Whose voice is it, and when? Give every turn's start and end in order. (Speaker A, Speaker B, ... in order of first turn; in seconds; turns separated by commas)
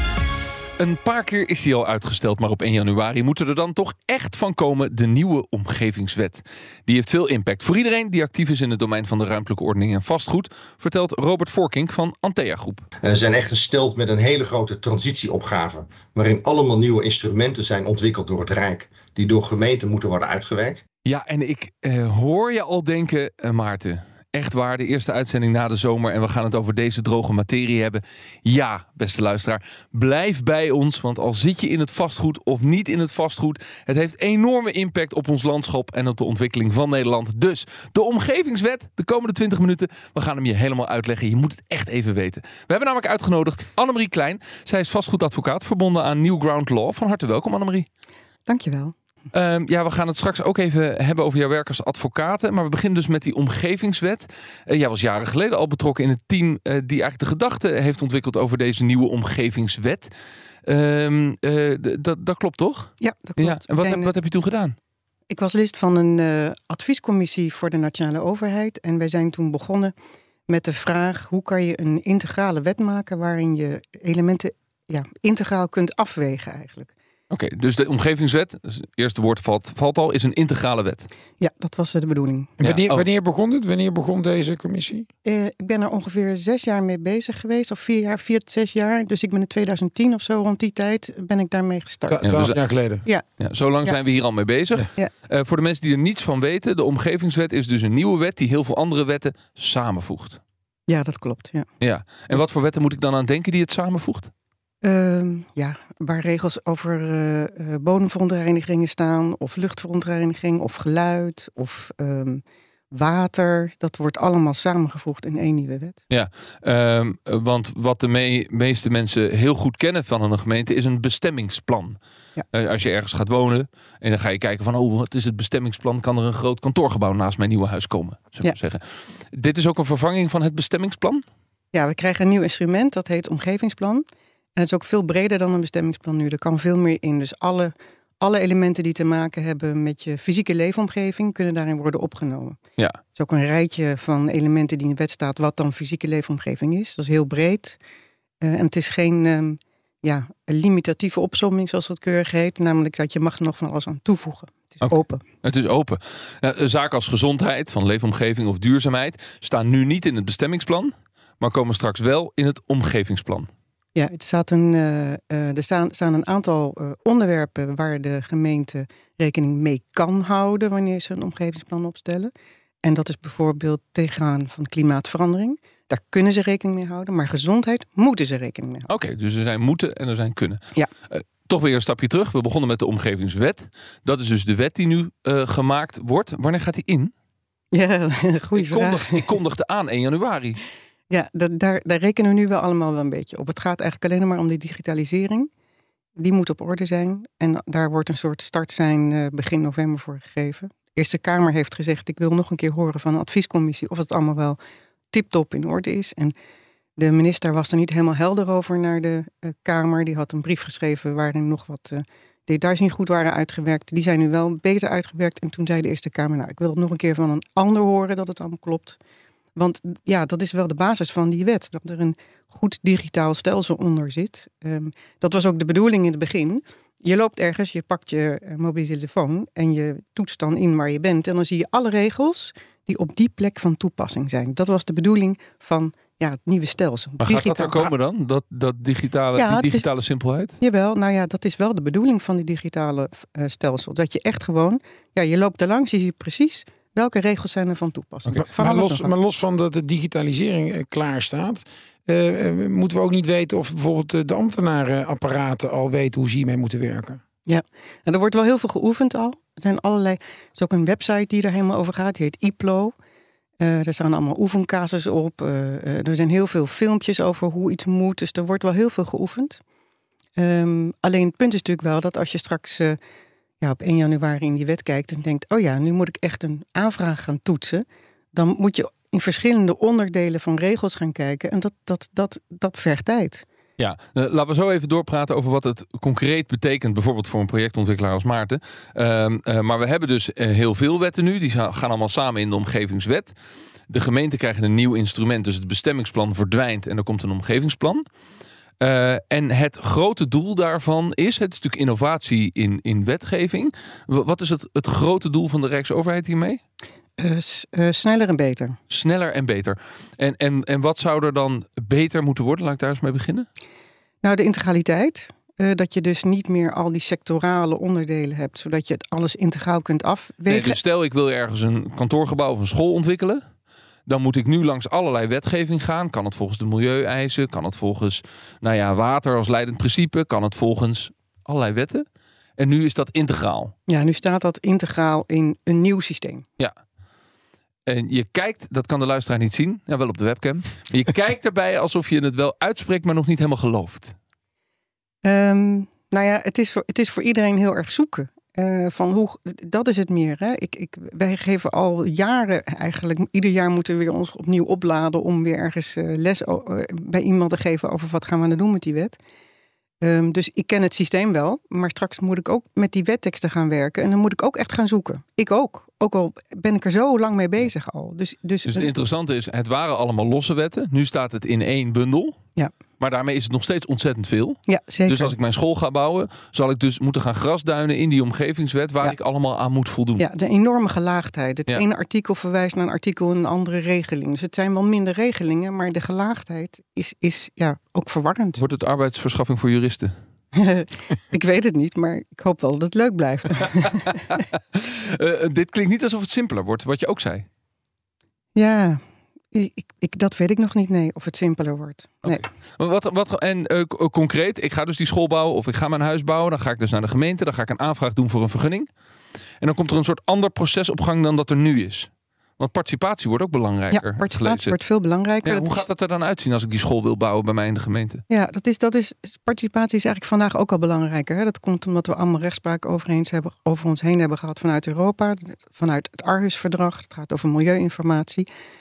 Speaker A: 0.8-12.8, Speaker B: 13.0-20.8, Speaker A: 21.1-47.9, Speaker C: 48.5-48.9, Speaker A: 49.3-60.1, Speaker A: 60.6-64.8, Speaker C: 63.0-64.1, Speaker C: 65.3-69.9, Speaker C: 70.5-76.9, Speaker A: 77.3-81.1, Speaker C: 81.4-82.5, Speaker D: 82.6-85.1, Speaker A: 82.6-83.0, Speaker C: 85.2-92.5, Speaker D: 92.1-93.0, Speaker A: 92.2-92.6, Speaker A: 93.4-100.4, Speaker C: 100.9-101.7, Speaker A: 101.8-104.3, Speaker C: 104.8-116.0, Speaker A: 116.1-122.0, Speaker A: 122.5-131.2, Speaker C: 131.7-134.0, Speaker C: 134.6-142.6, Speaker C: 143.2-147.8, Speaker C: 148.4-155.2, Speaker A: 154.8-163.5, Speaker C: 164.0-172.3, Speaker C: 172.8-178.9, Speaker A: 178.9-187.1, Speaker C: 187.7-189.2, Speaker A: 188.6-190.6, Speaker C: 191.1-195.5, Speaker C: 196.2-204.6, Speaker C: 205.1-206.3, Speaker C: 207.0-219.0, Speaker C: 219.6-237.9, Speaker A: 237.2-240.6, Speaker C: 239.4-239.9, Speaker C: 240.6-249.1, Speaker D: 248.5-257.2, Speaker C: 257.5-262.9, Speaker C: 263.6-269.6, Speaker C: 270.4-273.0, Speaker C: 273.6-283.4, Speaker A: 283.8-293.3, Speaker A: 293.9-298.0, Speaker A: 298.8-306.6, Speaker C: 307.2-308.8, Speaker A: 308.9-313.5, Speaker C: 314.2-320.8, Speaker A: 320.5-323.4, Speaker A: 324.1-332.1, Speaker A: 332.6-333.7, Speaker C: 333.9-336.4, Speaker A: 337.9-344.2, Speaker C: 345.2-359.2, Speaker C: 360.0-368.9, Speaker A: 368.7-372.4, Speaker A: 373.0-380.2, Speaker C: 374.7-375.3, Speaker C: 380.2-388.6, Speaker A: 388.6-390.1, Speaker C: 390.6-394.4, Speaker A: 393.7-397.5, Speaker C: 398.6-399.0, Speaker C: 399.5-402.4, Speaker A: 402.2-408.9, Speaker A: 409.6-414.8, Speaker C: 413.9-415.9, Speaker A: 415.4-418.2, Speaker C: 418.3-428.5